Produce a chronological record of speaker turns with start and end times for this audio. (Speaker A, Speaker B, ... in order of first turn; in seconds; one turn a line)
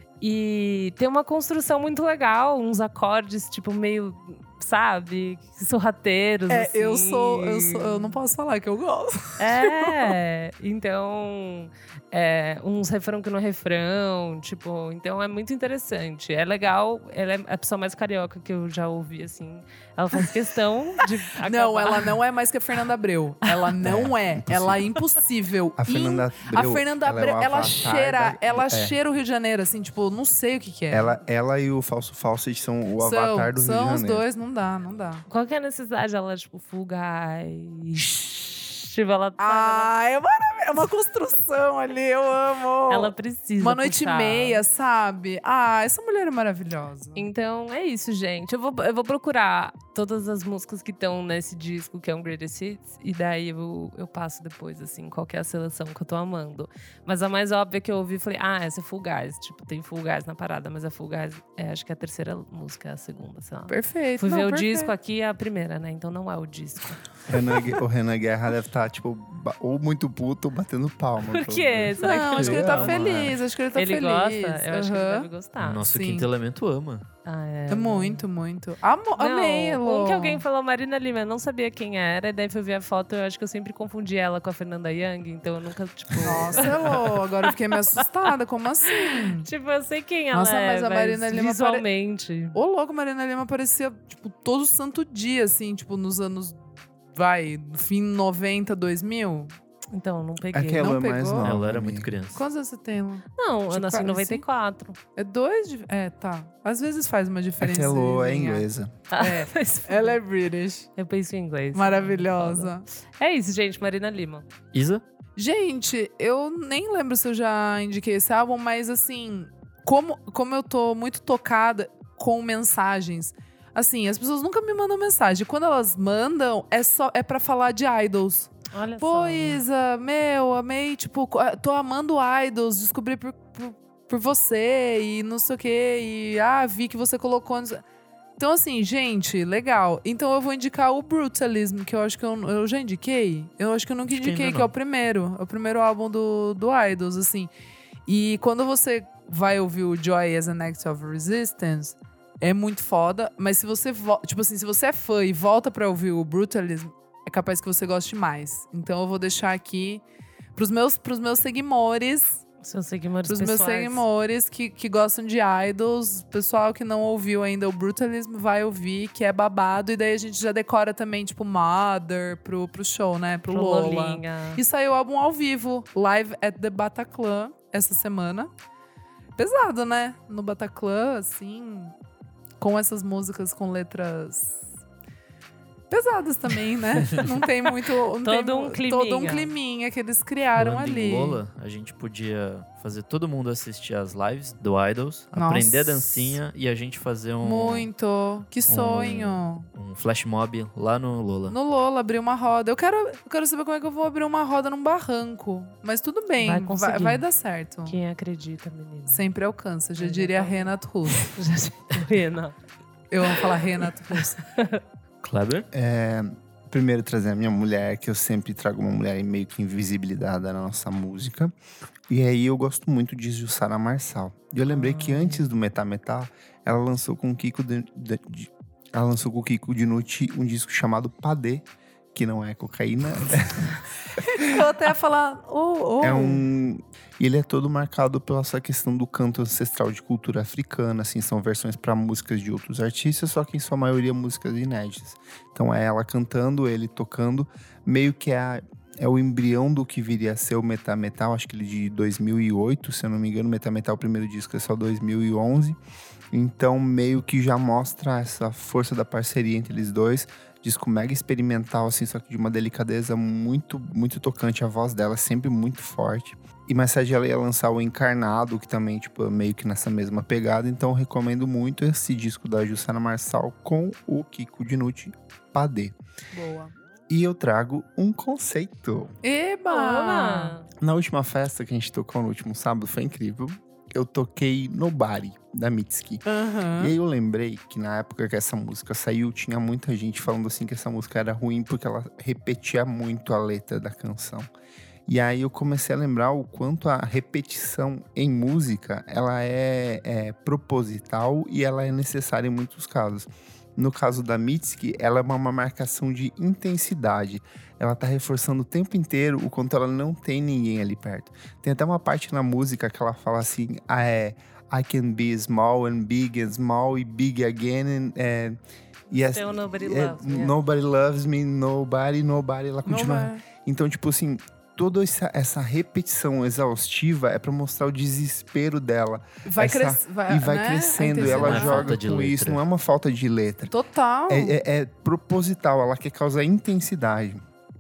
Speaker A: 0.2-8.2
Speaker B: 6.5-10.1
Speaker A: 9.4-22.1
Speaker B: 21.4-31.1
Speaker C: 23.8-24.8
Speaker C: 25.8-29.0
Speaker C: 30.9-34.2
Speaker B: 33.0-35.2
Speaker A: 35.3-39.9
Speaker B: 39.4-47.2
Speaker A: 42.9-44.6
Speaker A: 47.1-67.0
Speaker B: 63.7-64.9
Speaker C: 67.3-73.4
Speaker A: 71.2-73.0
Speaker B: 72.0-75.3
Speaker D: 72.4-73.3
Speaker A: 73.7-76.0
Speaker D: 75.6-77.1
Speaker B: 75.9-76.3
Speaker A: 77.2-78.3
Speaker B: 77.7-80.4
Speaker A: 79.2-87.2
Speaker B: 86.2-89.5
Speaker A: 88.8-92.6
Speaker B: 90.3-91.8
Speaker B: 92.5-96.6
Speaker B: 97.1-99.5
Speaker A: 99.9-101.0
Speaker C: 100.5-102.1
Speaker B: 100.8-101.5
Speaker D: 101.4-102.4
Speaker B: 102.3-104.4
Speaker A: 103.3-105.0
Speaker B: 105.2-108.7
Speaker C: 107.6-108.9
Speaker A: 109.1-110.2
Speaker B: 109.2-110.9
Speaker A: 111.0-114.5
Speaker B: 111.7-112.8
Speaker D: 114.7-115.0
Speaker B: 115.3-137.8
Speaker A: 128.7-129.6
Speaker B: 138.4-147.5
Speaker D: 144.1-144.7
Speaker B: 148.1-160.0
Speaker B: 160.6-162.4
Speaker A: 162.6-164.0
Speaker B: 163.2-178.5
Speaker A: 173.5-174.6
Speaker B: 179.4-181.9
Speaker B: 182.6-184.6
Speaker B: 185.9-191.4
Speaker A: 188.2-189.5
Speaker D: 190.5-197.9
Speaker B: 195.3-196.4
Speaker B: 197.4-199.6
Speaker D: 198.7-201.6
Speaker B: 201.5-208.0
Speaker A: 206.4-207.2
Speaker A: 207.8-209.3
Speaker B: 209.1-211.4
Speaker A: 210.0-212.5
Speaker B: 213.1-214.4
Speaker A: 213.2-214.8
Speaker D: 215.2-215.7
Speaker C: 215.7-221.5
Speaker C: 222.1-233.8
Speaker A: 224.7-225.5
Speaker B: 234.2-236.4
Speaker C: 236.0-255.8
Speaker C: 256.3-275.9
Speaker B: 276.3-276.7
Speaker C: 277.1-279.2
Speaker B: 279.2-280.6
Speaker A: 279.7-280.6
Speaker C: 280.8-294.5
Speaker B: 286.2-286.9
Speaker C: 295.1-318.6
Speaker C: 319.1-333.7
Speaker A: 319.3-320.6
Speaker B: 322.9-323.4
Speaker B: 329.4-331.9
Speaker D: 331.2-332.6
Speaker B: 333.7-334.6
Speaker C: 334.3-337.4